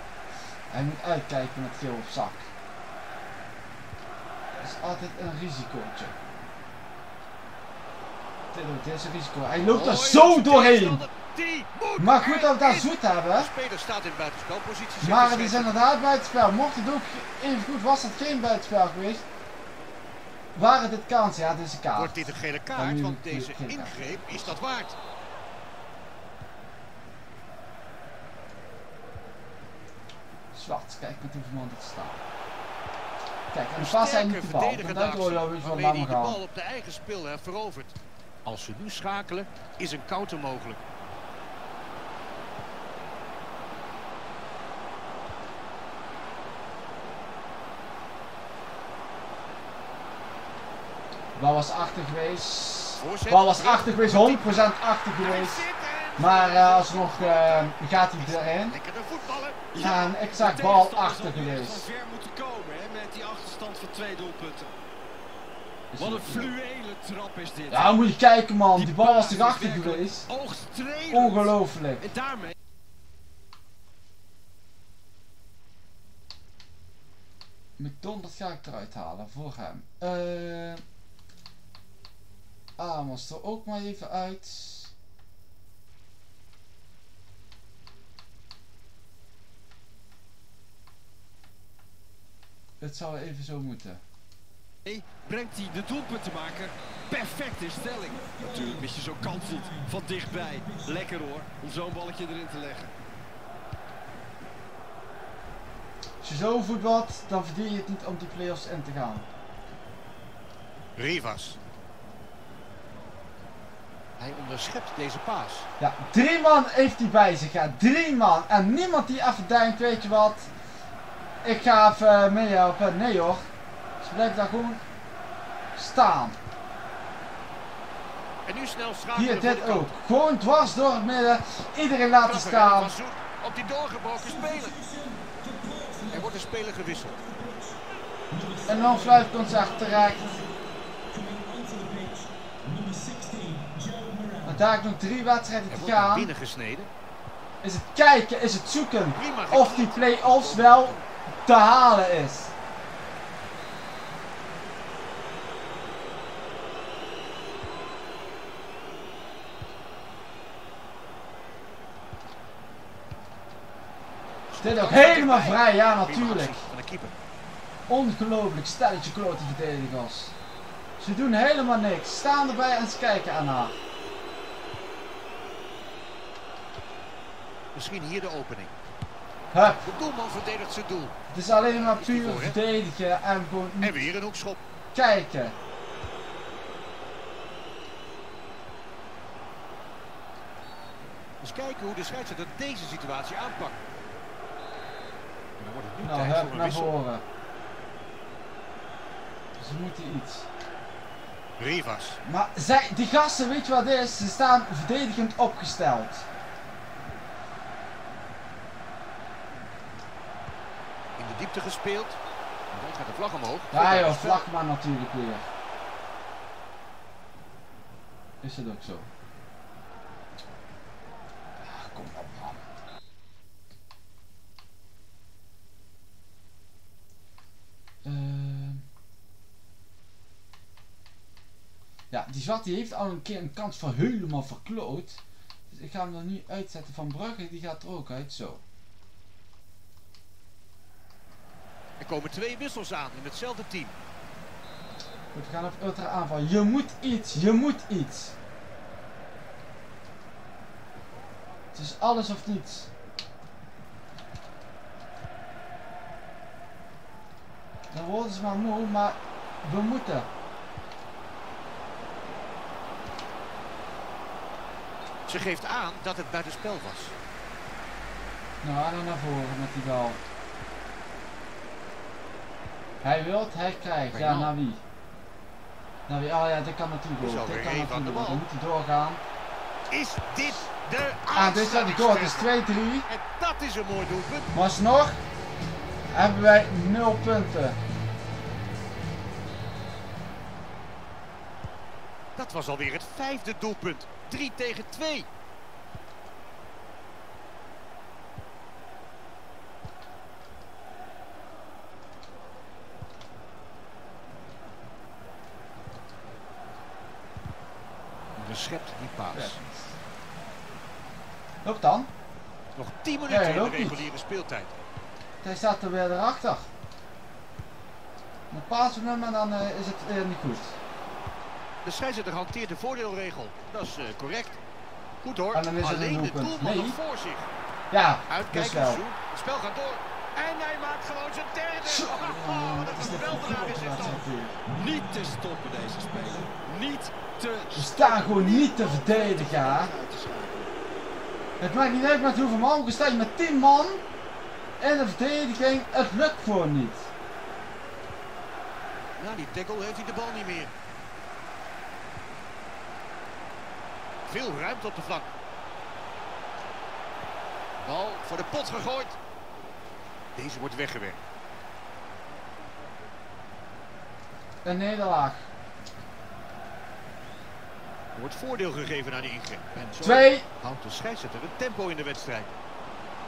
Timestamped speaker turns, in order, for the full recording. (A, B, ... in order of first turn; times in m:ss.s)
0:00.7-0:02.5 A
0:04.5-0:06.2 A
0:08.5-0:11.0 A
0:09.6-0:15.8 B
0:12.0-0:13.5 A
0:15.0-0:19.2 A
0:20.5-0:24.6 A
0:21.9-0:25.0 B
0:30.5-0:32.2 A
0:33.5-0:36.4 A
0:33.8-0:40.8 B
0:51.4-0:55.6 A
0:53.0-0:59.6 B
0:56.2-0:58.8 A
0:59.7-1:04.7 C
0:59.8-1:01.9 A
1:05.9-1:06.5 A
1:06.0-1:08.1 C
1:07.7-1:10.3 A
1:08.7-1:12.5 C
1:11.1-1:12.0 A
1:17.8-1:20.8 A
1:22.8-1:24.9 A
1:32.8-1:34.0 A
1:34.8-1:42.9 C
1:46.2-1:49.2 A
1:51.0-1:51.6 B
1:54.2-1:55.7 B
1:55.8-2:00.5 A
2:01.4-2:03.5 A
2:04.0-2:04.8 A
2:05.7-2:06.4 A
2:08.4-2:10.0 B
2:09.1-2:12.9 A
2:12.2-2:14.8 B
2:15.8-2:16.1 C
2:16.1-2:17.2 B
2:18.6-2:20.4 A
2:21.2-2:24.4 C
2:24.4-2:26.3 A
2:25.7-2:26.9 B
2:27.6-2:32.5 A
2:29.1-2:31.0 B
2:44.5-2:47.1 B
2:44.6-2:46.6 A
2:47.9-2:50.3 A
2:51.0-2:53.8 A
2:57.7-2:58.7 B
2:59.5-2:59.8 A
2:59.7-3:02.6 B
3:01.3-3:04.1 A
3:03.8-3:04.6 B
3:04.9-3:05.5 A
3:11.4-3:13.8 B
3:15.6-3:16.9 B
3:16.0-3:17.2 A
3:19.6-3:20.5 A
3:21.6-3:22.2 B
3:22.2-3:26.2 A
3:31.2-3:32.2 B
3:32.7-3:34.4 B
3:33.7-3:35.5 A
3:38.4-3:39.1 A
3:41.6-3:42.6 A
3:48.0-3:48.8 A
3:52.1-3:58.6 A
4:02.0-4:03.9 B
4:05.3-4:08.3 A
4:11.7-4:12.9 A
4:17.9-4:20.3 A
4:25.3-4:27.2 B
4:28.6-4:30.2 A
4:33.0-4:34.8 A
4:34.1-4:34.5 B
4:36.1-4:39.2 A
4:37.2-4:38.4 B
4:39.9-4:42.5 B
4:41.3-4:43.1 A
4:43.1-4:44.5 B
4:44.5-4:45.2 A
4:46.1-4:47.8 A
4:52.4-4:55.3 B
5:08.4-5:09.6 B
5:09.3-5:10.0 A
5:11.6-5:12.1 A
5:12.8-5:14.7 B
5:13.3-5:14.0 A
5:15.4-5:16.7 A
5:18.5-5:20.8 A
5:21.8-5:24.6 B
5:25.2-5:27.5 B
5:25.5-5:27.0 A
5:27.9-5:29.0 A
5:28.3-5:34.2 B
5:31.8-5:34.6 A
5:34.6-5:40.7 C
5:37.7-5:39.9 A
5:41.6-5:44.0 A
5:44.8-5:47.1 A
5:49.2-5:50.7 B
5:54.2-5:55.3 B
5:57.8-5:59.2 B
6:00.3-6:01.2 B
6:04.6-6:05.4 A
6:08.1-6:12.5 B
6:10.0-6:10.4 A